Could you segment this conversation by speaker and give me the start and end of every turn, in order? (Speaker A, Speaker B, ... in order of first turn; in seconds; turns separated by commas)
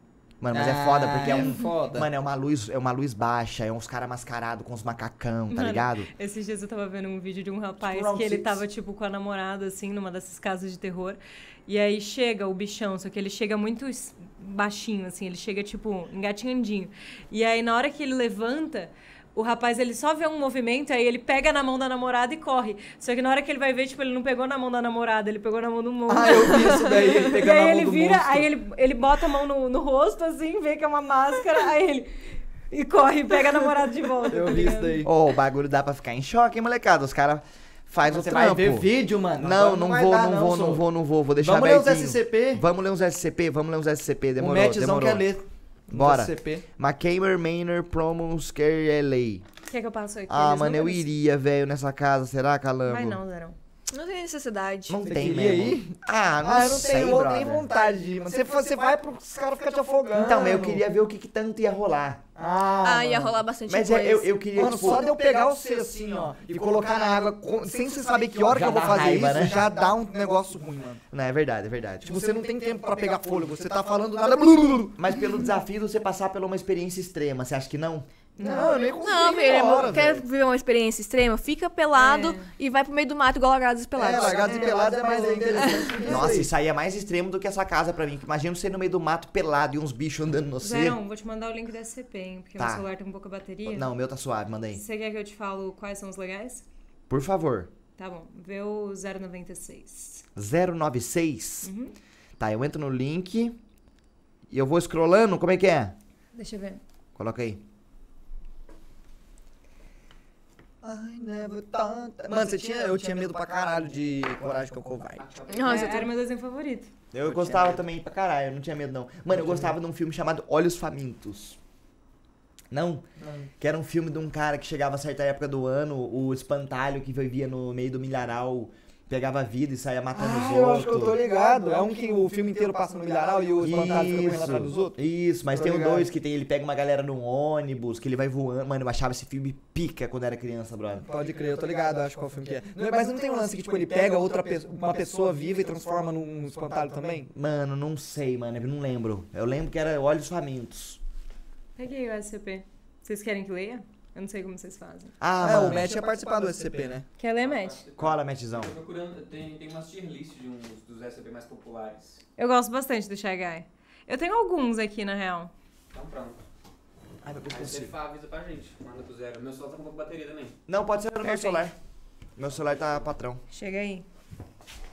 Speaker A: 0.4-6.1, Speaker B: 0.5-2.1, Speaker C: 5.5-35.0, Speaker A: 7.9-8.4, Speaker B: 26.1-28.5, Speaker B: 34.3-35.1, Speaker A: 35.0-45.3, Speaker B: 38.0-40.8, Speaker B: 41.4-42.6, Speaker B: 44.4-46.6, Speaker A: 45.9-49.5, Speaker C: 49.7-51.1, Speaker A: 50.3-53.2, Speaker C: 52.9-53.6, Speaker D: 53.9-55.0, Speaker A: 54.9-57.7, Speaker B: 55.0-60.8, Speaker A: 60.1-62.2, Speaker B: 62.4-63.4, Speaker D: 62.8-64.7, Speaker A: 63.7-65.1, Speaker B: 64.5-71.0, Speaker A: 68.5-69.7, Speaker A: 71.1-72.4, Speaker B: 72.0-75.0, Speaker A: 75.0-78.1, Speaker C: 78.4-78.8, Speaker B: 78.4-80.2, Speaker D: 79.0-84.7, Speaker C: 81.9-82.5, Speaker B: 84.0-86.5, Speaker C: 84.5-86.0, Speaker A: 86.0-91.0, Speaker C: 90.6-93.9, Speaker A: 92.6-92.8, Speaker A: 93.7-94.8, Speaker C: 94.7-96.6, Speaker A: 97.1-97.7, Speaker C: 98.0-100.2, Speaker A: 100.4-101.7, Speaker C: 101.6-101.9, Speaker A: 102.4-103.6, Speaker A: 104.5-106.0, Speaker C: 106.3-106.8, Speaker A: 107.2-107.6, Speaker B: 110.8-115.2, Speaker E: 115.2-115.6, Speaker D: 115.5-116.1, Speaker C: 115.6-116.9, Speaker A: 117.1-121.6, Speaker B: 117.3-117.7, Speaker B: 119.3-119.7, Speaker A: 122.7-123.0, Speaker B: 123.2-123.5, Speaker A: 123.6-131.2, Speaker B: 130.1-135.0, Speaker A: 133.6-141.1, Speaker B: 135.5-136.1, Speaker B: 141.1-147.3, Speaker A: 147.3-151.0, Speaker C: 151.8-155.2, Speaker A: 155.2-155.9, Speaker B: 155.4-157.1, Speaker C: 157.2-157.8, Speaker E: 157.4-162.2, Speaker A: 158.0-158.8, Speaker C: 162.4-165.5, Speaker E: 165.9-166.4, Speaker A: 167.2-167.9, Speaker E: 167.5-170.6, Speaker A: 170.7-171.8, Speaker C: 171.2-171.6, Speaker A: 172.4-173.4, Speaker C: 173.5-174.1